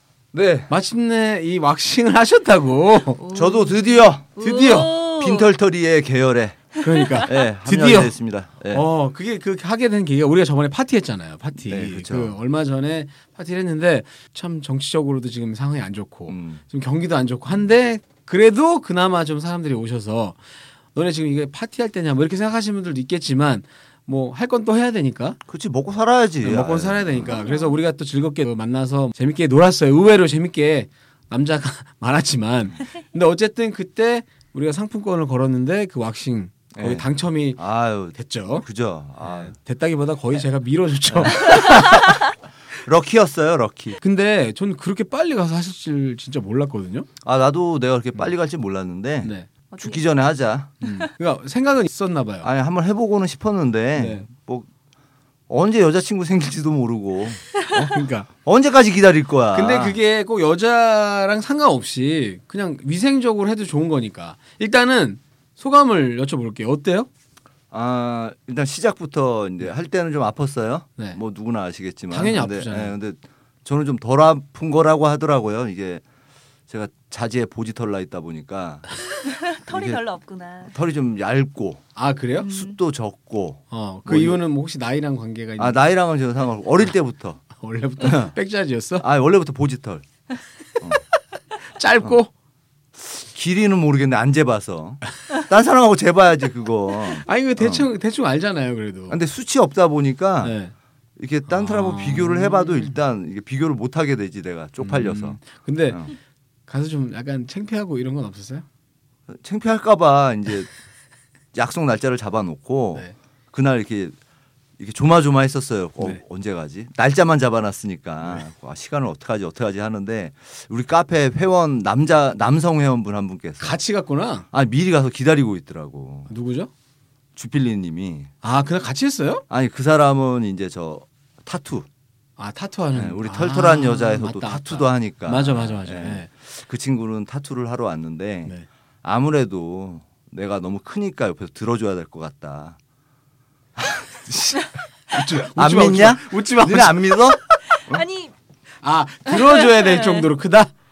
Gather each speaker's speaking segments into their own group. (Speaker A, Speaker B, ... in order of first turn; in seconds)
Speaker A: 0.3-0.7, 3.3-4.3, 5.0-8.8, 11.6-12.3, 16.3-16.6, 25.5-27.3, 36.7-39.5, 41.1-41.8, 42.8-44.0, 47.2-50.7, 52.4-54.7, 55.5-57.8, 58.4-60.0, 67.7-76.0, 76.7-78.8, 79.7-80.0, 80.7-81.8, 82.4-84.4, 85.6-87.4, 88.0-88.3, 89.0-90.0, 93.0-97.8, 99.1-100.5, 101.2-105.4, 109.3-110.7, 111.5-114.1, 114.8-123.8, 124.5-126.3, 127.3-128.3, 129.5-131.8, 132.9-142.8, 143.8-148.0
Speaker B: 0.7-3.2, 4.4-4.9, 6.8-8.1, 8.7-20.4, 20.9-25.4, 26.4-37.6, 38.1-38.6, 39.2-42.2, 44.0-47.1, 49.2-49.5, 50.8-52.5, 54.0-54.3, 57.7-58.3, 59.5-67.1, 72.1-72.9, 82.0-82.5, 83.7-85.8, 87.5-89.0, 91.7-92.3, 97.2-99.2, 100.4-100.7, 101.5-102.9, 104.8-106.1, 106.7-108.6, 123.6-124.5, 126.3-126.7, 128.4-129.4, 132.4-136.3, 145.1-147.6, 148.8-150.7
Speaker C: 3.2-5.5, 27.2-27.7, 49.7-50.0, 79.2-80.7, 82.4-82.8, 147.9-148.3, 149.6-150.2